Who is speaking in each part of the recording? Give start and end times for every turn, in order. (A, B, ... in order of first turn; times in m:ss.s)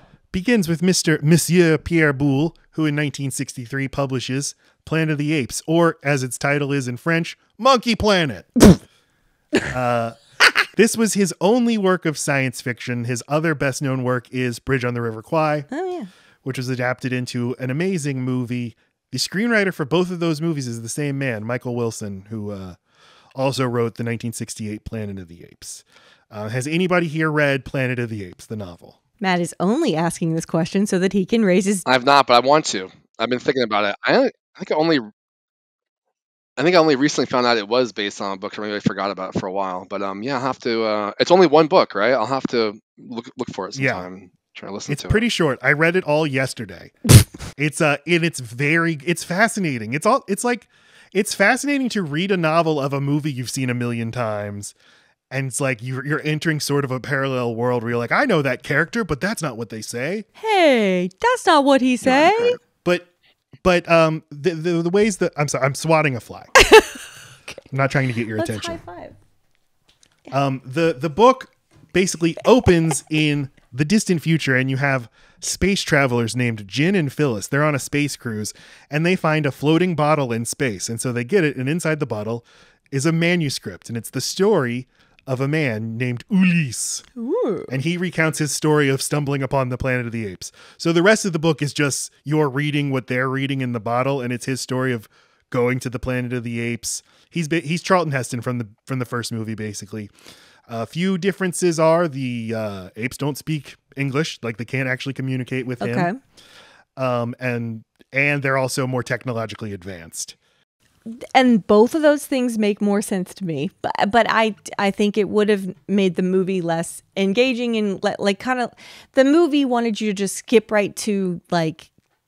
0:00.3-0:08.7 A
0:09.7-0:10.2 A
0:10.7-0:15.7 A
0:15.7-0:16.1 B
0:16.4-0:22.8 A
0:23.4-0:29.0 A
0:29.2-0:31.8 B
0:31.8-0:35.1 C
0:36.6-0:45.2 C
0:43.7-0:44.1 A
0:44.9-0:47.0 A
0:47.6-0:54.7 A
0:55.3-1:00.2 A
1:00.4-1:02.6 B
1:02.1-1:02.6 C
1:02.8-1:03.1 A
1:03.6-1:06.5 A
1:06.6-1:07.0 B
1:07.7-1:08.8 A
1:08.4-1:09.2 B
1:10.3-1:27.0 A
1:27.2-1:27.7 B
1:27.7-1:40.1 A
1:40.7-1:46.1 A
1:45.8-1:46.1 B
1:47.0-1:50.4 A
1:51.1-2:01.9 B